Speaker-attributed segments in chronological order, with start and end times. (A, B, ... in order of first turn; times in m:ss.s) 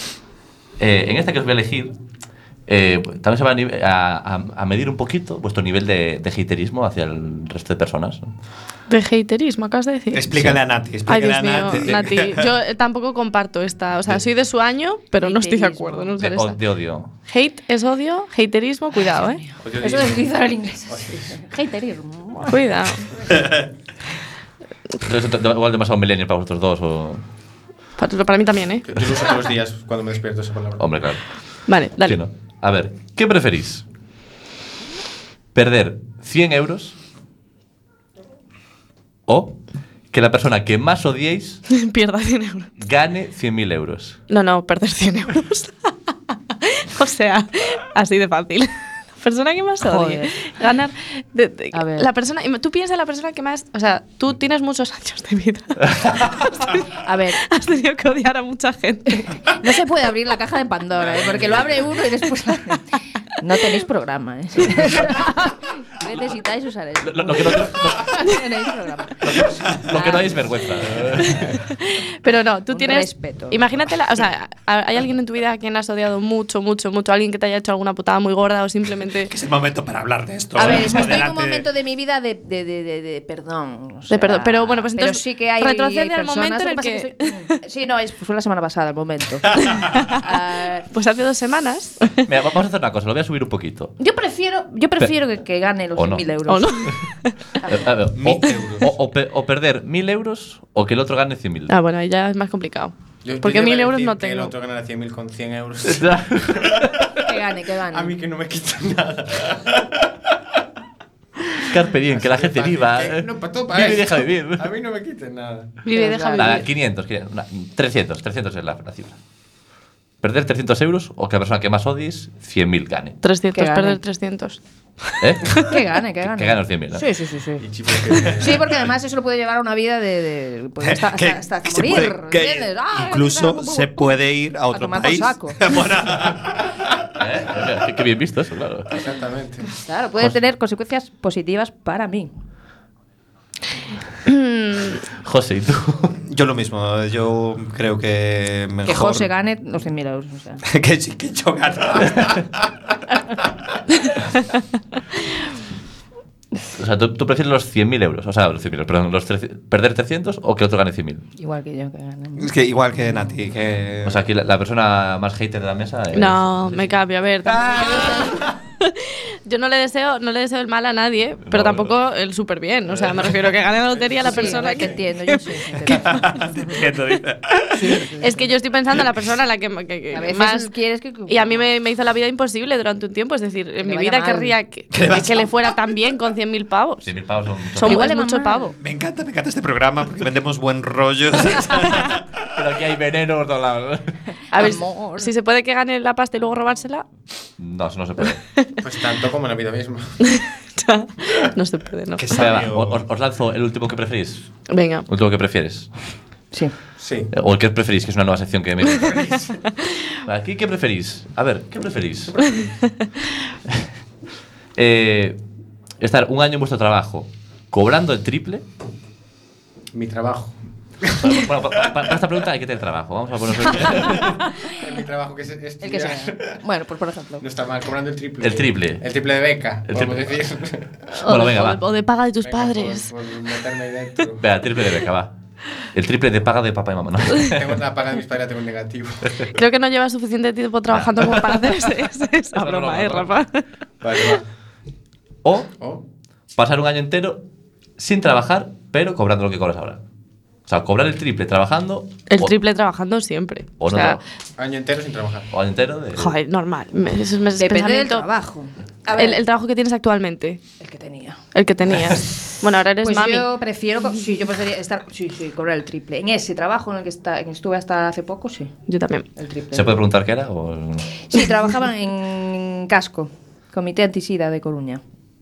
0:00.8-0:01.9 A
0:02.7-0:08.3 A
0:08.9-0:10.2 B
0:10.1-0:12.5 C
0:10.3-0:10.6 A
0:11.0-0:16.6 B
0:15.2-0:16.2 D
0:16.2-0:17.1 A
0:17.3-0:19.4 B
0:19.0-0:22.6 D
0:19.6-0:20.3 E
0:20.9-0:21.4 E
0:22.4-0:23.1 B
0:25.0-0:27.2 A
0:28.0-0:28.8 B
0:28.9-0:30.8 E
0:30.8-0:31.2 A
0:31.7-0:32.2 B
0:32.0-0:33.8 A
0:35.5-0:37.0 A
0:39.3-0:39.6 A
0:40.1-0:41.6 A
0:41.7-0:42.7 B
0:42.8-0:44.2 A
0:44.3-0:45.9 B
0:46.6-0:56.8 B
0:49.8-0:50.3 D
0:51.7-0:52.1 D
0:56.9-0:57.4 D
0:57.4-0:59.3 B
0:59.2-1:02.8 D
1:01.1-1:01.6 E
1:03.4-1:11.0 D
1:07.0-1:08.3 A
1:09.2-1:11.6 A
1:11.5-1:19.3 B
1:12.7-1:13.6 D
1:19.3-1:21.7 C
1:20.5-1:30.9 D
1:24.1-1:27.5 B
1:29.6-1:30.2 B
1:30.9-1:32.3 B
1:32.3-1:33.9 A
1:34.0-1:37.0 D
1:36.0-1:36.2 A
1:36.5-1:37.3 B
1:37.6-1:37.9 D
1:37.7-1:41.7 A
1:38.1-1:38.9 C
1:41.7-1:44.5 B
1:43.2-1:47.0 E
1:45.8-1:47.2 A
1:47.2-1:48.1 D
1:47.9-1:50.1 E
1:51.6-1:54.7 A
1:52.1-1:55.8 E
1:55.8-1:56.6 B
1:55.9-1:56.6 D
1:56.4-1:59.2 A
2:00.2-2:03.2 A
2:03.2-2:04.6 B
2:03.5-2:04.0 D
2:05.2-2:05.6 A
2:05.5-2:07.6 D
2:06.2-2:07.0 A
2:07.6-2:08.8 E
2:08.3-2:15.6 D
2:10.8-2:16.6 C
2:17.2-2:18.9 A
2:18.9-2:19.7 E
2:19.7-2:22.3 D
2:24.2-2:25.0 B
2:25.2-2:26.1 A
2:26.1-2:29.3 C
2:28.8-2:30.6 D
2:30.7-2:32.4 C
2:36.7-2:41.2 A
2:41.4-2:42.5 D
2:42.4-2:44.2 C
2:44.0-2:46.9 A
2:46.1-2:56.4 B
2:47.6-2:47.8 C
2:47.9-2:48.4 D
2:51.4-2:51.9 A
2:52.9-2:53.4 C
2:54.2-2:56.8 D
2:55.9-2:58.0 C
2:57.7-2:58.6 D
2:58.2-3:00.7 B
3:00.1-3:01.7 D
3:01.3-3:07.1 B
3:03.8-3:04.6 D
3:04.9-3:05.7 C
3:07.0-3:08.0 A
3:07.7-3:08.7 D
3:07.8-3:08.7 B
3:08.8-3:12.3 C
3:12.5-3:14.1 A
3:14.5-3:15.3 D
3:14.5-3:17.0 B
3:17.6-3:18.4 A
3:18.8-3:20.3 E
3:20.3-3:22.4 B
3:22.2-3:23.0 C
3:22.3-3:24.5 A
3:24.7-3:25.0 B
3:25.1-3:25.9 A
3:27.0-3:27.3 E
3:27.3-3:29.3 A
3:29.1-3:29.4 E
3:30.2-3:32.7 A
3:34.8-3:35.4 A
3:36.0-3:38.6 A
3:39.9-3:40.6 E
3:41.2-3:44.4 A
3:43.9-3:44.4 D
3:44.7-3:46.6 E
3:45.8-3:47.4 D
3:47.4-3:50.9 E
3:48.4-3:49.0 A
3:49.9-3:50.2 A
3:51.1-3:53.1 B
3:51.2-3:51.8 A
3:52.4-3:54.4 E
3:54.4-3:55.3 A
3:55.9-3:57.7 A
3:57.4-3:59.3 E
3:59.5-4:03.6 B
4:00.9-4:01.7 A
4:02.6-4:03.2 A
4:04.0-4:04.4 E
4:05.4-4:05.7 A
4:06.5-4:07.4 A
4:08.0-4:10.0 A
4:10.7-4:12.5 A
4:12.3-4:14.2 B
4:13.8-4:14.2 A
4:14.6-4:15.5 E
4:15.5-4:16.3 A
4:16.2-4:18.3 B
4:17.6-4:19.4 D
4:19.2-4:20.6 B
4:20.8-4:21.4 D
4:21.5-4:23.5 B
4:23.0-4:28.7 D
4:28.9-4:29.2 B
4:29.4-4:30.0 D
4:29.7-4:31.2 A
4:31.3-4:35.0 D